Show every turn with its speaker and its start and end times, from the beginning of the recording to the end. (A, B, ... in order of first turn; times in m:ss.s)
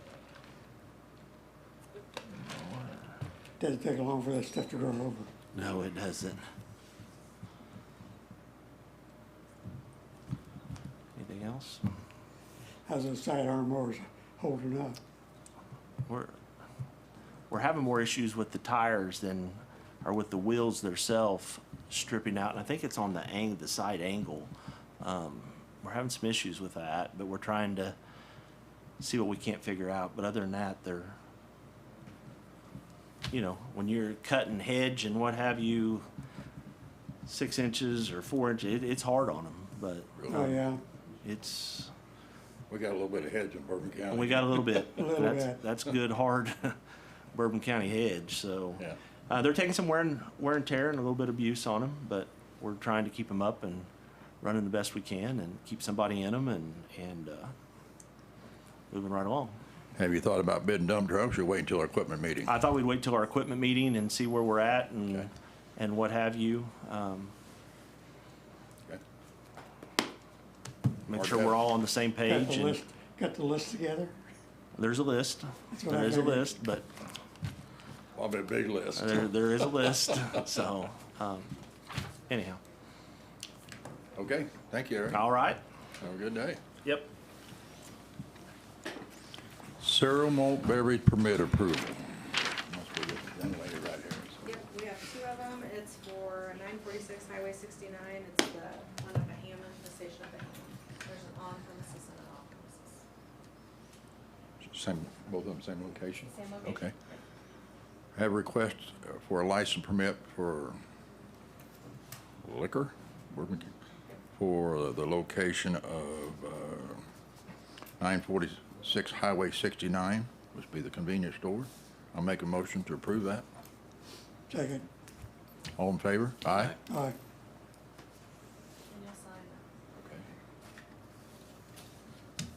0:02.3-0:03.0 A
0:03.6-0:05.3 B
0:05.5-0:06.4 A
0:11.2-0:11.8 A
0:12.9-0:15.0 B
0:16.1-0:16.4 A
0:17.5-0:28.0 A
0:29.0-0:31.2 A
0:33.3-0:36.1 A
0:37.3-0:40.5 A
0:40.2-0:40.5 C
0:40.3-0:40.8 B
0:41.2-0:41.9 A
0:42.7-0:44.8 C
0:44.1-0:46.8 A
0:44.9-0:45.6 B
0:47.3-0:53.9 A
0:54.4-0:57.5 A
0:58.9-0:59.6 A
1:00.0-1:02.5 C
1:02.5-1:07.3 A
1:11.1-1:12.8 A
1:11.1-1:11.6 C
1:12.2-1:14.2 B
1:14.8-1:16.9 A
1:15.7-1:16.6 B
1:18.2-1:19.2 C
1:19.0-1:21.5 A
1:22.3-1:22.6 A
1:24.2-1:25.3 C
1:25.1-1:25.6 A
1:26.0-1:26.6 C
1:26.8-1:27.1 A
1:29.8-1:34.4 C
1:34.4-1:43.0 D
1:44.6-1:46.9 C
1:46.3-1:46.8 D
1:48.2-1:50.8 C
1:52.4-1:53.7 C
1:54.3-1:57.0 C
1:58.0-2:03.4 C
2:04.5-2:04.8 B
2:05.8-2:06.8 C
2:06.8-2:07.2 B
2:08.9-2:09.6 D
2:10.0-2:10.3 C